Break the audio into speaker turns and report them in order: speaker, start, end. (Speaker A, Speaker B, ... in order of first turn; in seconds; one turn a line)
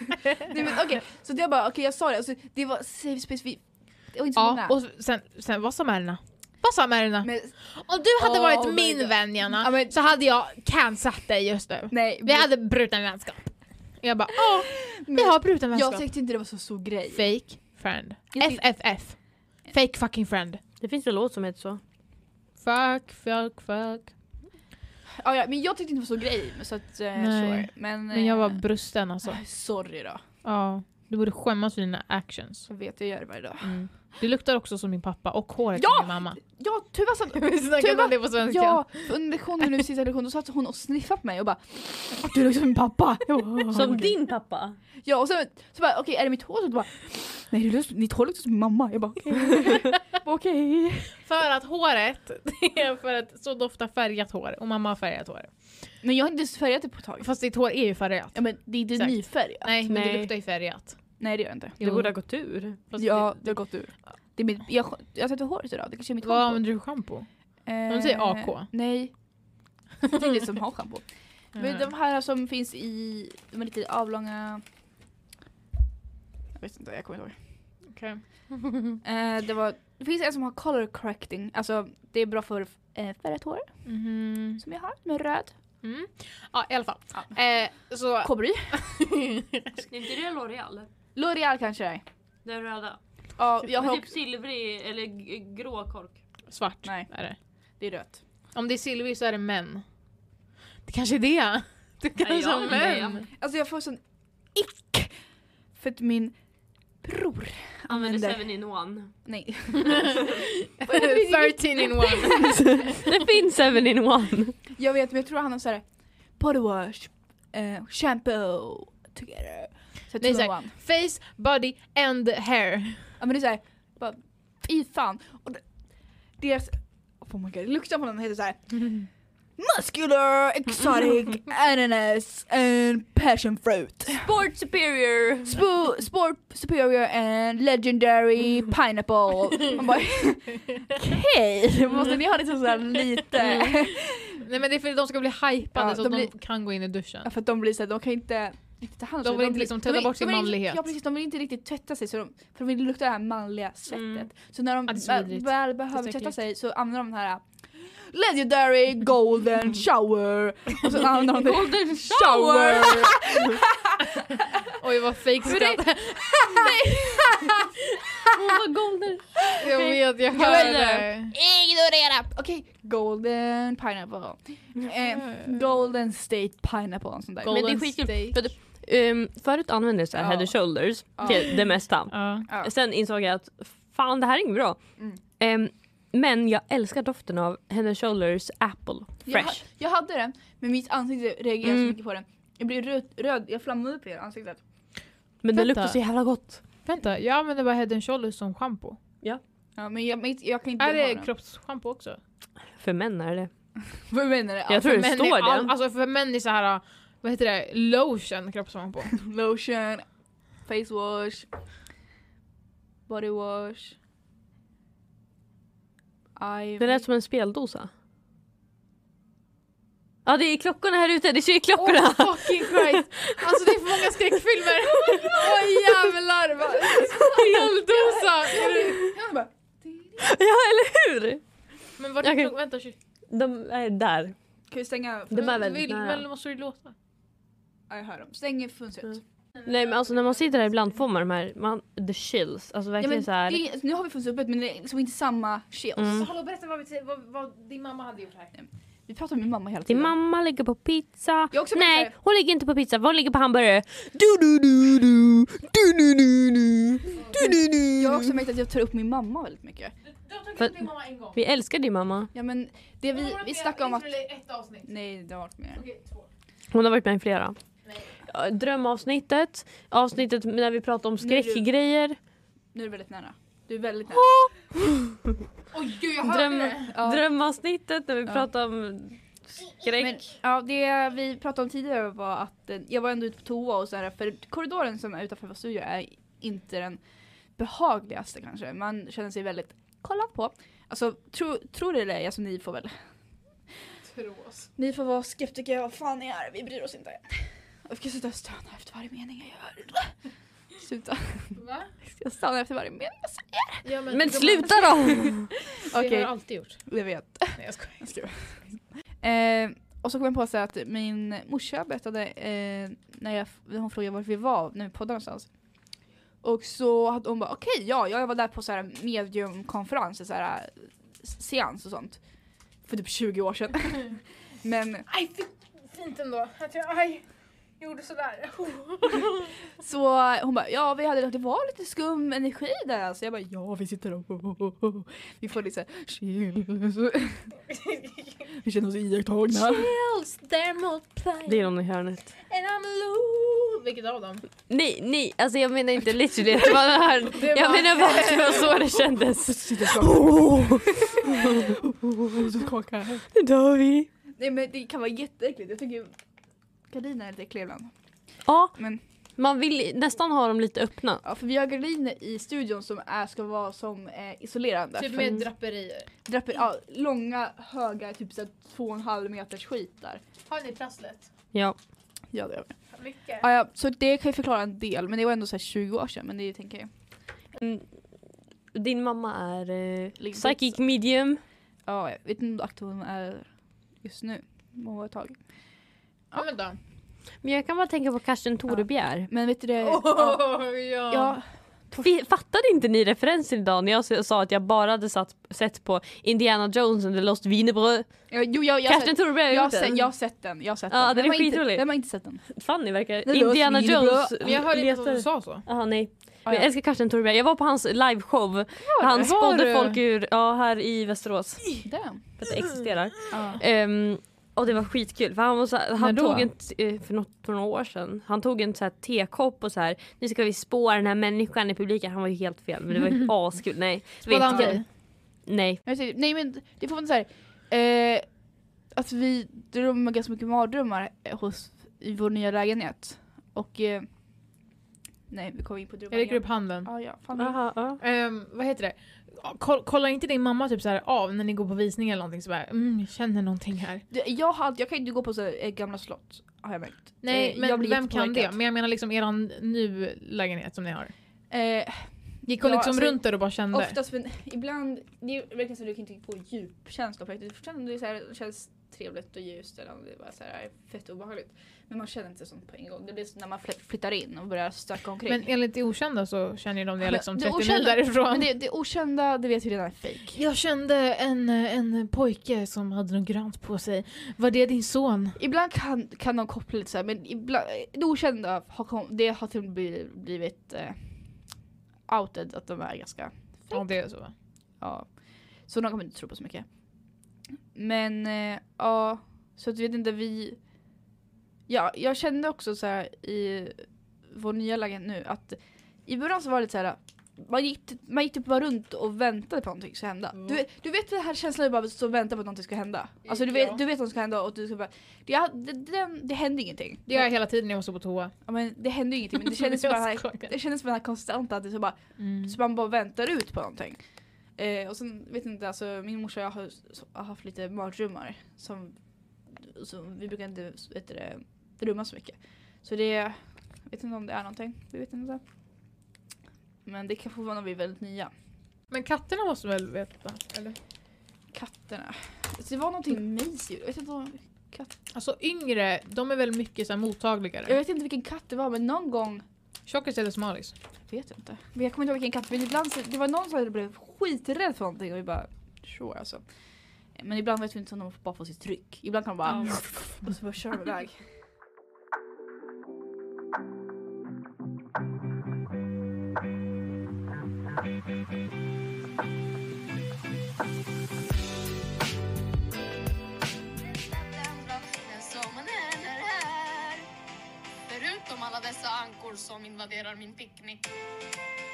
Speaker A: 0.4-4.8
Speaker B: 4.4-16.1
Speaker A: 7.2-7.6
Speaker A: 8.2-9.9
Speaker A: 11.9-12.5
Speaker A: 14.7-17.3
Speaker B: 17.1-20.6
Speaker A: 18.3-18.8
Speaker C: 20.8-21.8
Speaker B: 22.6-24.1
Speaker A: 25.2-28.6
Speaker B: 27.2-29.4
Speaker A: 29.2-30.2
Speaker B: 30.4-32.7
Speaker A: 32.7-33.8
Speaker B: 33.6-36.4
Speaker A: 35.7-44.2
Speaker B: 37.3-39.6
Speaker C: 43.7-44.8
Speaker A: 45.0-51.1
Speaker B: 51.2-55.5
Speaker A: 56.0-57.3
Speaker B: 57.2-61.1
Speaker A: 58.4-59.8
Speaker C: 59.9-60.3
Speaker A: 61.2-61.8
Speaker B: 61.8-62.1
Speaker C: 61.8-62.8
Speaker B: 62.9-63.6
Speaker A: 63.0-66.6
Speaker B: 66.2-67.3
Speaker A: 67.7-69.2
Speaker B: 67.9-68.7
Speaker A: 70.0-74.6
Speaker B: 71.6-71.9
Speaker A: 76.6-77.4
Speaker B: 77.9-79.0
Speaker A: 79.0-83.8
Speaker B: 83.8-84.6
Speaker A: 84.6-85.5
Speaker B: 85.8-89.8
Speaker A: 88.2-88.8
Speaker C: 89.8-90.9
Speaker A: 91.2-92.0
Speaker C: 92.5-93.0
Speaker A: 93.4-94.1
Speaker C: 93.6-96.2
Speaker B: 96.5-97.4
Speaker A: 96.8-97.1
Speaker A: 97.8-98.2
Speaker B: 98.5-99.8
Speaker B: 100.9-103.3
Speaker C: 102.2-103.2
Speaker A: 102.7-104.0
Speaker A: 104.5-105.2
Speaker A: 105.7-106.4
Speaker A: 107.0-108.4
Speaker C: 107.9-109.1
Speaker A: 109.2-112.9
Speaker B: 109.8-113.0
Speaker C: 112.4-114.6
Speaker A: 114.7-115.8
Speaker A: 116.4-120.7
Speaker B: 120.2-123.2
Speaker A: 123.2-125.6
Speaker A: 126.4-134.3
Speaker C: 134.2-135.6
Speaker A: 135.4-144.4
Speaker B: 141.9-142.2
Speaker B: 143.4-143.7
Speaker B: 144.4-147.3
Speaker A: 145.8-146.3
Speaker A: 147.2-164.7
Speaker B: 149.2-150.8
Speaker C: 153.9-154.3
Speaker B: 154.9-156.4
Speaker C: 161.3-163.3
Speaker B: 164.7-167.8
Speaker A: 165.4-167.7
Speaker C: 168.3-171.1
Speaker B: 169.6-171.3
Speaker A: 170.3-177.8
Speaker B: 175.2-175.5
Speaker B: 177.4-178.4
Speaker C: 177.5-184.8
Speaker A: 180.2-180.5
Speaker A: 181.2-181.6
Speaker B: 182.1-182.5
Speaker C: 185.4-189.6
Speaker A: 189.3-194.6
Speaker C: 191.6-191.9
Speaker C: 195.4-196.6
Speaker B: 195.5-196.0
Speaker B: 196.8-199.0
Speaker A: 199.8-201.3
Speaker B: 200.8-202.2
Speaker C: 202.8-203.5
Speaker A: 204.1-204.9
Speaker C: 204.7-205.7
Speaker B: 204.8-209.1
Speaker A: 209.1-210.1
Speaker A: 210.6-211.5
Speaker A: 213.1-214.0
Speaker A: 216.4-217.1
Speaker C: 216.8-217.9
Speaker C: 220.3-224.2
Speaker B: 221.8-229.0
Speaker A: 224.9-225.8
Speaker A: 226.6-230.3
Speaker C: 227.0-227.8
Speaker C: 228.7-229.1
Speaker C: 230.2-231.4
Speaker B: 232.0-233.0
Speaker C: 232.2-232.5
Speaker C: 233.3-234.3
Speaker A: 234.7-235.6
Speaker C: 235.3-236.2
Speaker B: 235.4-236.9
Speaker A: 237.9-239.2
Speaker C: 239.7-243.6
Speaker B: 239.9-240.4
Speaker A: 243.0-246.3
Speaker C: 246.0-246.3
Speaker B: 246.1-248.5
Speaker A: 248.6-250.1
Speaker C: 249.9-258.3
Speaker A: 251.5-252.1
Speaker B: 257.2-257.6
Speaker A: 257.8-259.9
Speaker B: 260.1-261.4
Speaker C: 260.6-262.3
Speaker A: 262.3-264.1
Speaker B: 263.1-264.9
Speaker A: 264.9-265.8
Speaker B: 265.7-266.3
Speaker C: 266.7-267.6
Speaker C: 268.2-272.2
Speaker A: 271.2-271.7
Speaker A: 272.7-274.4
Speaker C: 274.8-275.4
Speaker B: 275.7-276.9
Speaker C: 276.2-280.2
Speaker A: 276.9-277.2
Speaker A: 280.0-287.0
Speaker A: 287.6-293.0
Speaker B: 294.0-294.7
Speaker A: 294.8-300.2
Speaker A: 300.7-303.9
Speaker B: 301.6-301.9
Speaker B: 303.8-306.9
Speaker C: 304.1-305.4
Speaker A: 305.0-315.5
Speaker B: 307.6-308.2
Speaker A: 316.4-322.2
Speaker A: 322.8-325.1
Speaker B: 325.1-327.2
Speaker B: 327.8-329.5
Speaker A: 329.8-337.5
Speaker B: 337.7-338.4
Speaker A: 338.5-339.9
Speaker B: 339.5-341.7
Speaker C: 341.5-342.3
Speaker B: 342.5-344.4
Speaker C: 344.7-351.7
Speaker B: 347.3-349.0
Speaker A: 347.6-348.7
Speaker A: 349.4-353.3
Speaker C: 353.3-354.1
Speaker A: 354.4-356.1
Speaker A: 356.9-357.9
Speaker C: 358.5-358.8
Speaker A: 358.8-359.0
Speaker C: 359.4-361.2
Speaker A: 361.2-365.4
Speaker B: 365.0-366.1
Speaker A: 366.2-370.2
Speaker B: 370.5-371.3
Speaker A: 372.3-372.9
Speaker B: 372.9-373.4
Speaker A: 373.4-376.9
Speaker C: 377.6-378.0
Speaker C: 378.7-381.4
Speaker A: 380.2-380.8
Speaker A: 381.9-385.4
Speaker B: 386.4-386.8
Speaker C: 387.4-389.3
Speaker A: 388.7-390.6
Speaker B: 389.8-391.4
Speaker A: 391.1-392.1
Speaker C: 392.0-398.3
Speaker A: 398.3-402.5
Speaker C: 398.9-400.1
Speaker C: 400.9-425.8
Speaker A: 403.2-404.4
Speaker B: 404.4-405.6
Speaker A: 408.8-409.3
Speaker B: 409.2-410.0
Speaker A: 411.8-412.3
Speaker A: 413.3-413.6
Speaker B: 416.0-416.5
Speaker B: 424.3-424.9
Speaker A: 424.5-424.8
Speaker A: 425.9-428.4
Speaker A: 428.9-434.1
Speaker A: 435.3-437.6
Speaker B: 436.1-436.9
Speaker C: 437.4-438.0
Speaker B: 438.0-444.0
Speaker A: 444.1-448.6
Speaker B: 447.2-451.1
Speaker A: 451.5-465.5
Speaker B: 452.5-454.0
Speaker B: 465.3-468.5
Speaker A: 467.0-470.4
Speaker B: 470.3-475.4
Speaker A: 475.4-481.6
Speaker A: 482.1-483.9
Speaker B: 483.7-484.3
Speaker A: 484.8-486.7
Speaker A: 487.7-490.6
Speaker A: 491.7-507.3
Speaker B: 503.3-503.8
Speaker B: 507.1-508.3
Speaker A: 508.4-514.0
Speaker B: 509.4-510.5
Speaker B: 512.2-512.6
Speaker A: 514.5-519.0
Speaker A: 519.5-525.4
Speaker A: 526.9-528.3
Speaker B: 528.9-530.8
Speaker A: 531.5-534.9
Speaker B: 535.1-537.8
Speaker A: 537.6-539.5
Speaker B: 539.9-540.8
Speaker A: 541.1-546.4
Speaker A: 547.1-551.2
Speaker B: 549.5-549.8
Speaker D: 563.9-567.1
Speaker D: 567.9-570.9